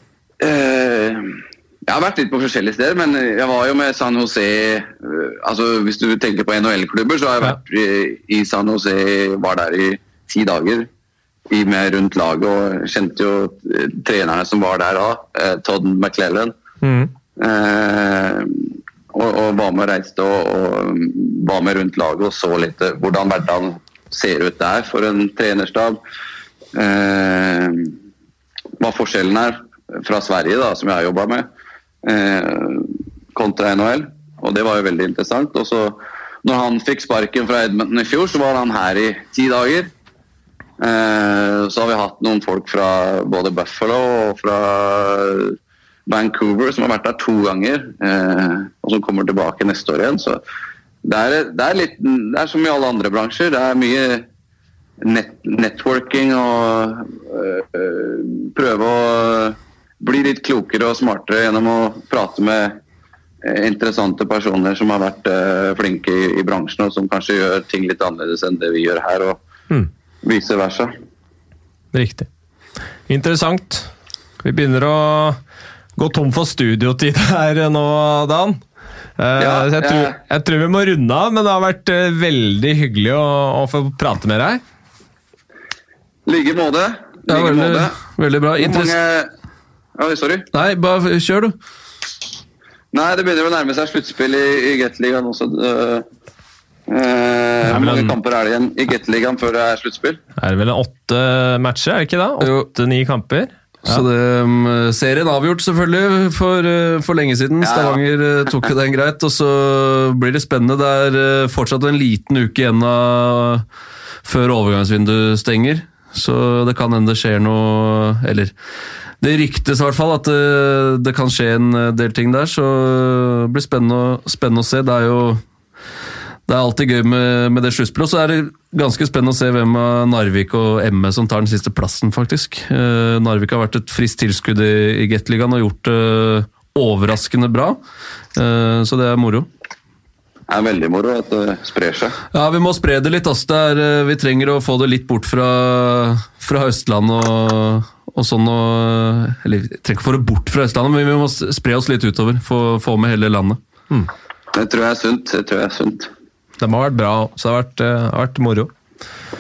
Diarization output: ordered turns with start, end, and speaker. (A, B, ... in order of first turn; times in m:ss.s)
0:00.4-0:10.9 A
0:11.5-0:16.6 A
0:16.8-0:17.1 B
0:17.4-0:26.0 A
0:26.7-0:27.9 A
0:28.8-0:31.5 A
0:32.0-0:39.9 A
0:40.8-0:50.4 A
0:51.0-0:54.3 A
0:55.0-1:02.8 A
1:03.4-1:09.4 A
1:10.2-1:10.9 A
1:11.9-1:12.3 B
1:13.1-1:13.9 B
1:14.4-1:15.4 B
1:16.0-1:18.6 B
1:19.2-1:24.6 B
1:19.4-1:20.2 A
1:26.3-1:28.0 A
1:27.3-1:29.0 C
1:28.6-1:29.3 A
1:30.0-1:30.5 A
1:30.5-1:31.6 C
1:32.9-1:36.1 A
1:36.9-1:40.2 A
1:37.7-1:38.2 B
1:40.4-1:44.0 B
1:42.4-1:42.7 C
1:43.9-1:53.6 C
1:47.6-1:48.0 A
1:54.2-1:58.5 C
1:59.2-2:05.4 C
2:06.5-2:17.8 C
2:18.4-2:19.5 C
2:20.5-2:22.2 A
2:22.3-2:33.6 C
2:34.5-2:36.1 A
2:36.6-2:38.7 B